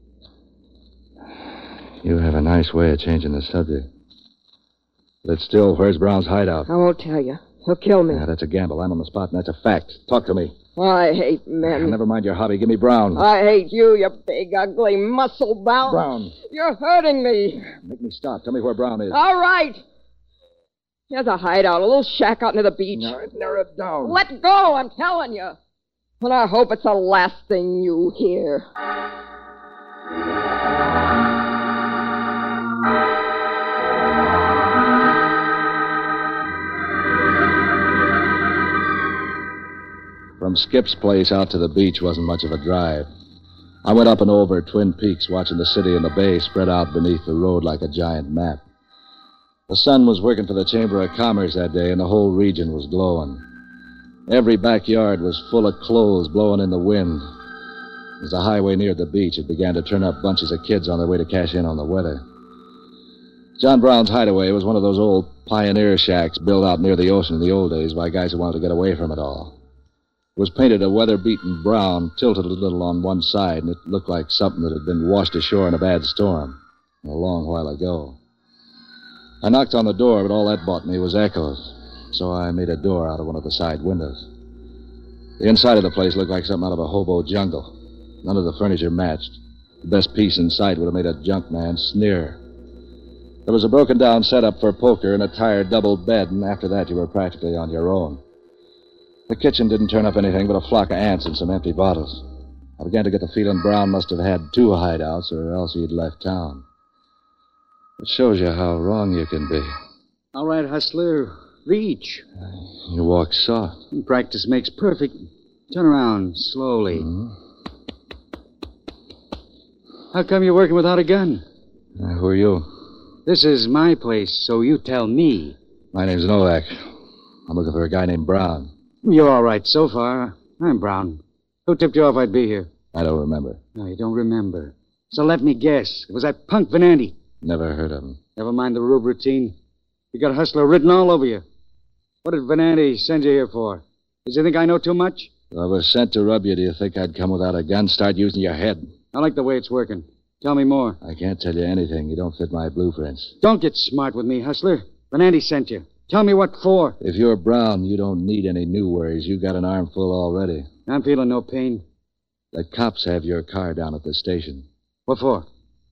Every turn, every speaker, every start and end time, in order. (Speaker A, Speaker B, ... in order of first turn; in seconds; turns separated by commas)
Speaker A: 2.0-3.9, Speaker A: 5.2-6.7, Speaker B: 6.7-8.2, Speaker A: 8.1-10.6, Speaker B: 10.8-12.0, Speaker A: 11.6-13.2, Speaker B: 13.2-17.7, Speaker A: 15.8-16.3, Speaker A: 17.8-19.2, Speaker B: 19.1-19.8, Speaker B: 21.1-23.2, Speaker A: 22.9-24.2, Speaker B: 24.0-25.6, Speaker B: 26.2-28.6, Speaker A: 40.4-43.1, Speaker A: 43.8-48.6, Speaker A: 49.7-53.4, Speaker A: 54.3-57.3, Speaker A: 58.2-62.2, Speaker A: 63.6-69.6, Speaker A: 70.4-78.2, Speaker A: 79.4-84.3, Speaker A: 85.4-92.4, Speaker A: 93.5-98.2, Speaker A: 99.3-102.3, Speaker A: 102.8-106.6, Speaker A: 108.0-109.7, Speaker C: 110.3-112.2, Speaker A: 112.8-113.8, Speaker C: 113.9-117.1, Speaker A: 116.9-117.3, Speaker C: 120.1-121.4, Speaker A: 122.0-122.7, Speaker C: 123.3-125.6, Speaker A: 125.9-126.9, Speaker A: 127.5-128.7, Speaker C: 129.0-132.7, Speaker A: 132.9-133.6, Speaker C: 133.8-137.2, Speaker A: 137.4-138.2, Speaker C: 138.4-139.5, Speaker C: 140.1-141.4, Speaker C: 142.2-145.3, Speaker A: 145.5-148.9, Speaker C: 149.1-151.0, Speaker A: 151.0-153.3, Speaker C: 153.4-156.9, Speaker A: 157.0-160.7, Speaker C: 160.9-161.8, Speaker A: 162.5-164.7, Speaker C: 165.1-165.5